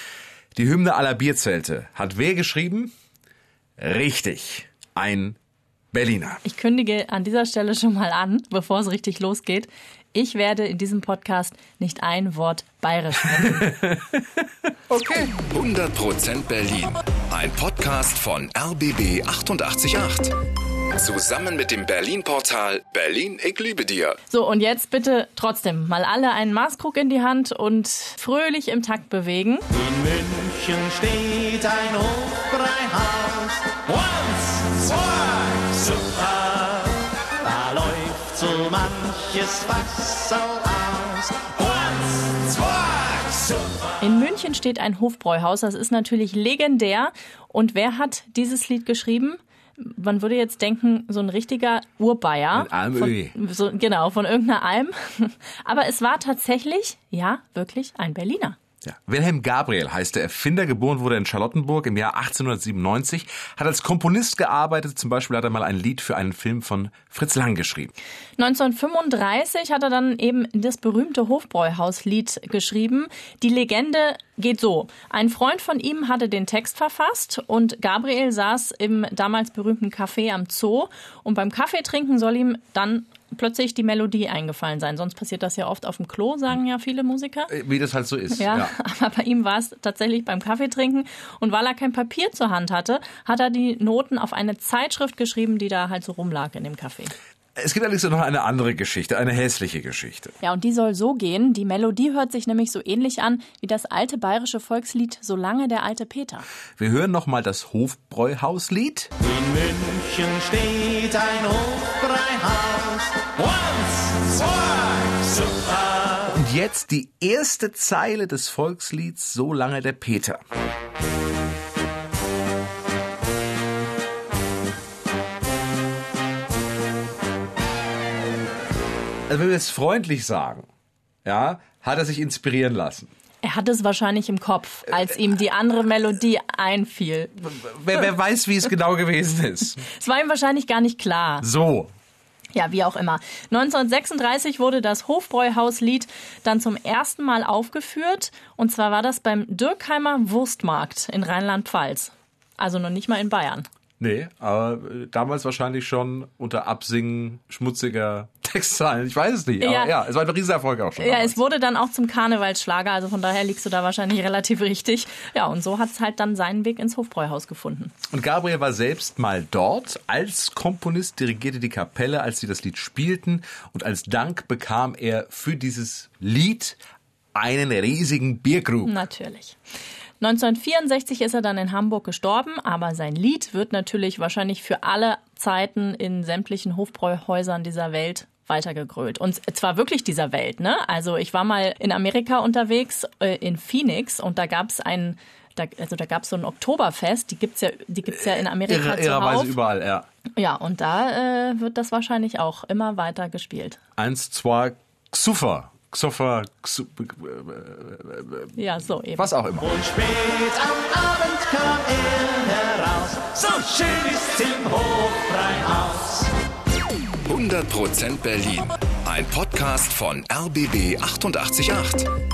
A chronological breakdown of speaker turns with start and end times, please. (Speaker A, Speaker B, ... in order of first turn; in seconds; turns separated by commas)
Speaker A: 0.5-2.9, Speaker A: 3.8-5.4, Speaker A: 5.9-6.4, Speaker B: 6.4-13.8, Speaker A: 14.9-15.3, Speaker C: 15.3-20.3, Speaker C: 20.9-24.2, Speaker B: 24.3-29.6, Speaker D: 29.7-43.2, Speaker B: 44.0-58.6, Speaker A: 52.5-53.3, Speaker A: 58.8-67.9, Speaker B: 68.4-87.5, Speaker A: 87.5-88.7, Speaker B: 88.3-97.1, Speaker A: 97.5-100.3, Speaker B: 100.4-106.5, Speaker A: 106.8-109.1, Speaker D: 109.2-116.2, Speaker A: 116.2-120.4, Speaker A: 129.3-130.7, Speaker A: 131.2-133.1, Speaker B: 133.4-137.6, Speaker A: 137.5-139.8, Speaker B: 139.8-141.4, Speaker A: 141.4-141.9, Speaker B: 142.5-153.7, Speaker A: 154.0-161.4, Speaker B: 159.6-160.0, Speaker B: 161.0-167.9, Speaker A: 168.1-176.8, Speaker A: 177.3-179.0, Speaker B: 178.8-179.6, Speaker B: 180.2-199.6, Speaker A: 198.1-200.1, Speaker B: 200.3-203.8, Speaker A: 204.0-208.6, Speaker B: 208.6-209.3, Speaker A: 209.2-209.7, Speaker D: 209.7-216.3, Speaker C: 217.2-222.1